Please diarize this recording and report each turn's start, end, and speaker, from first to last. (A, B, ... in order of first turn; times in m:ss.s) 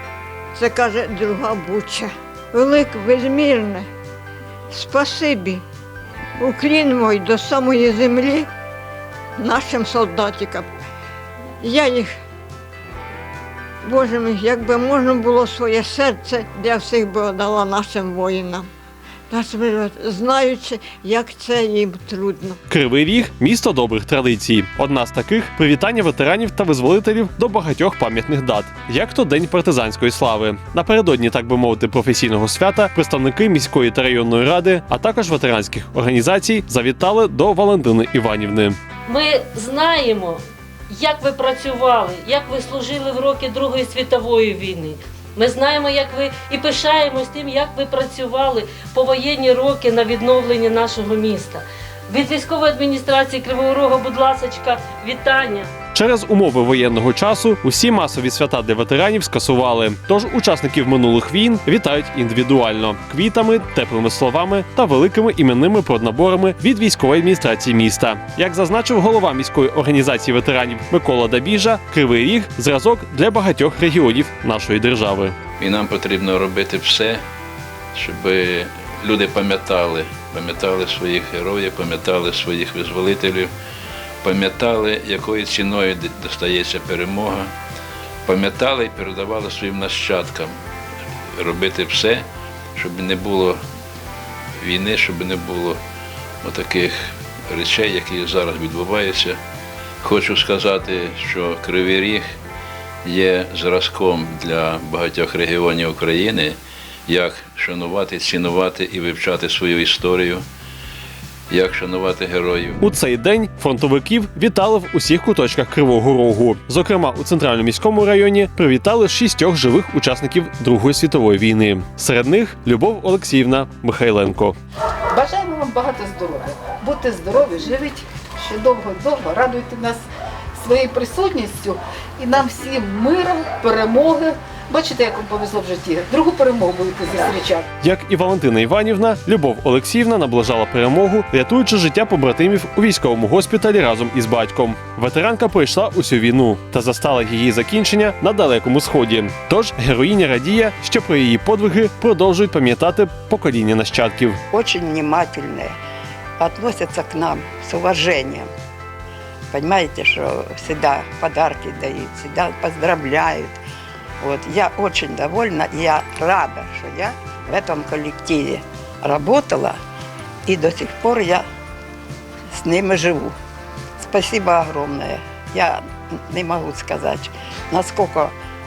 0:00.5-0:03.8 A
0:04.7-0:05.6 A
0:06.4-0:08.4 A
0:09.4-0:10.7 A
0:11.6-0:12.1 A
0:13.8-0:18.6 A
0:19.3-0:22.6 A
0:22.7-0:38.8 B
0:39.1-0:55.7 C
0:55.9-1:15.4 B
1:15.6-1:17.2 D
1:17.9-1:23.5 D
1:24.2-1:27.5 D
1:28.3-1:30.5 D
1:31.4-1:32.2 D
1:32.8-1:33.6 D
1:34.6-1:35.8 D
1:36.4-1:39.4 D
1:40.0-1:42.3 D
1:43.0-1:50.4 D
1:51.5-1:52.8 D
1:52.8-2:04.6 B
2:05.1-2:10.0 E
2:10.6-2:17.6 E
2:17.8-2:34.4 B
2:34.5-2:35.7 F
2:36.4-2:38.5 F
2:39.5-2:43.6 F
2:44.2-2:49.8 F
2:50.4-2:51.4 F
2:52.5-2:53.3 F
2:54.0-2:58.3 F